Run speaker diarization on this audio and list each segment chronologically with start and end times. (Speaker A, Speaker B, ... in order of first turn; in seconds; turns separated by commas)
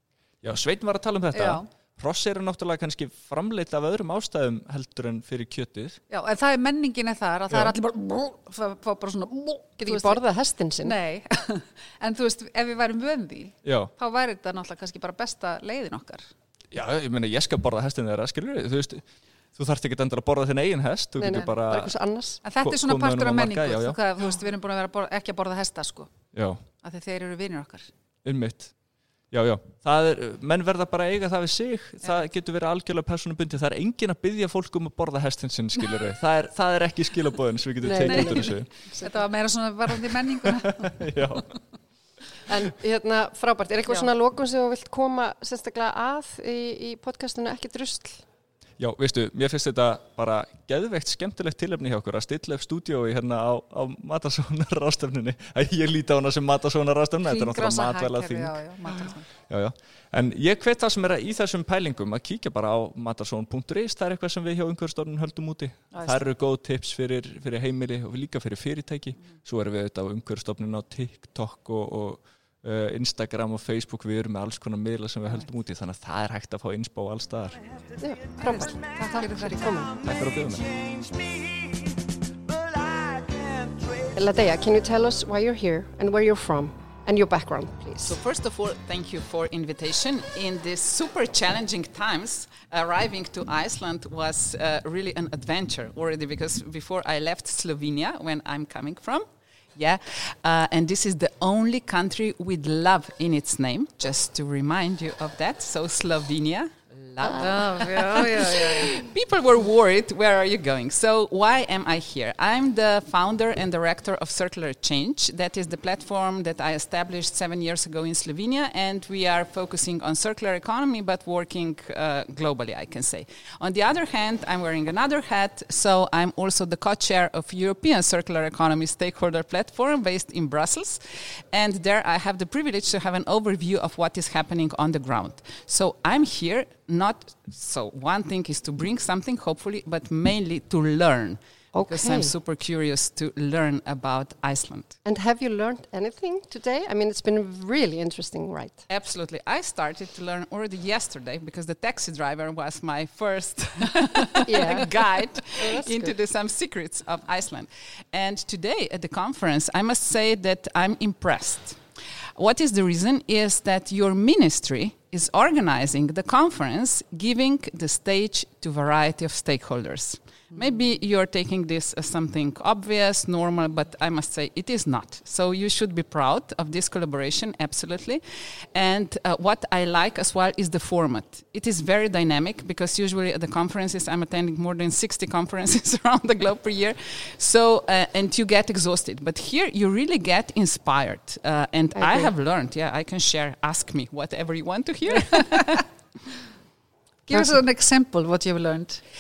Speaker A: 0.4-6.0, Speaker B: 1.3-1.7, Speaker B: 6.1-10.2, Speaker A: 7.5-7.8, Speaker C: 9.8-10.9, Speaker B: 10.8-16.3, Speaker A: 13.6-13.9, Speaker A: 16.7-21.9, Speaker C: 21.2-22.4, Speaker B: 22.4-26.1, Speaker A: 22.5-24.0, Speaker A: 26.3-26.6, Speaker B: 26.8-27.9, Speaker A: 28.2-28.7, Speaker A: 29.3-38.7, Speaker C: 37.8-39.2, Speaker B: 38.0-41.0, Speaker A: 40.5-41.6, Speaker C: 42.5-48.2, Speaker A: 48.8-58.6, Speaker B: 57.2-59.3, Speaker A: 59.5-77.6, Speaker B: 65.9-66.3, Speaker D: 77.8-84.5, Speaker C: 78.0-80.0, Speaker B: 78.4-79.8, Speaker A: 80.0-80.6, Speaker C: 84.2-88.2, Speaker E: 88.0-144.9, Speaker B: 107.2-108.9, Speaker C: 108.2-108.8, Speaker C: 141.7-142.4, Speaker C: 145.0-148.8, Speaker E: 148.9-161.8, Speaker C: 154.4-154.9, Speaker C: 155.6-156.2, Speaker E: 162.4-195.8, Speaker B: 170.5-170.9, Speaker C: 191.9-192.3, Speaker B: 195.3-195.8, Speaker B: 197.2-199.0